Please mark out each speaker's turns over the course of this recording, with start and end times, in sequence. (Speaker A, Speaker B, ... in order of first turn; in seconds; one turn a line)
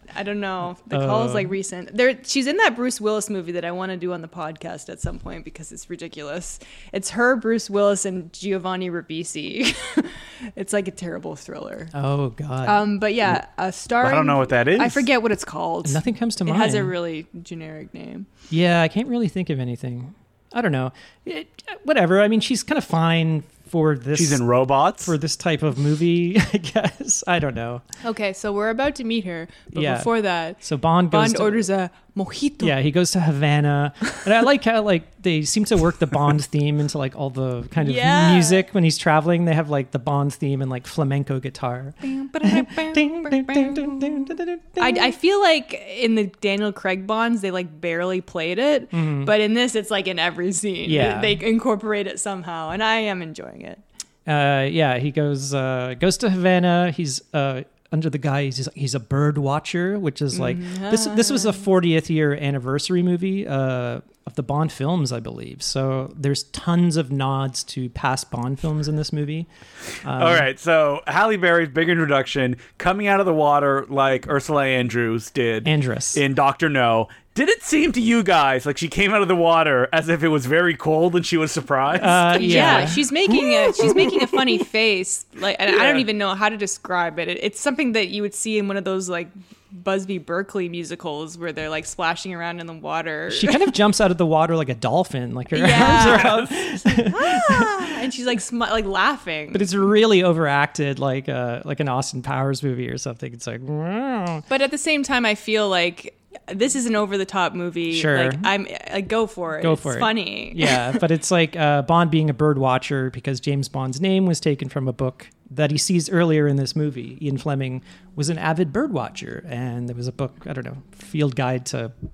Speaker A: 0.1-11.9
Speaker B: 0.9-1.5
Speaker B: 11.9-12.9
Speaker A: 12.6-18.3
Speaker C: 14.0-15.1
Speaker B: 15.8-16.9
Speaker B: 18.5-24.4
Speaker C: 24.1-25.1
Speaker B: 25.0-27.8
Speaker A: 28.0-32.8
Speaker B: 29.7-31.7
Speaker B: 32.6-45.2
Speaker A: 37.8-38.7
Speaker A: 42.0-44.2
Speaker A: 44.8-53.8
Speaker B: 48.9-49.3
Speaker B: 50.9-51.4
Speaker B: 54.3-69.5
Speaker A: 60.3-61.6
Speaker B: 70.0-70.5
Speaker C: 70.2-82.9
Speaker B: 75.7-76.2
Speaker B: 82.0-84.6
Speaker A: 82.0-93.6
Speaker C: 85.7-86.0
Speaker B: 93.3-97.9
Speaker A: 95.5-99.8
Speaker C: 95.8-96.5
Speaker B: 99.5-104.4
Speaker A: 104.5-111.0
Speaker B: 107.9-108.5
Speaker B: 109.6-121.9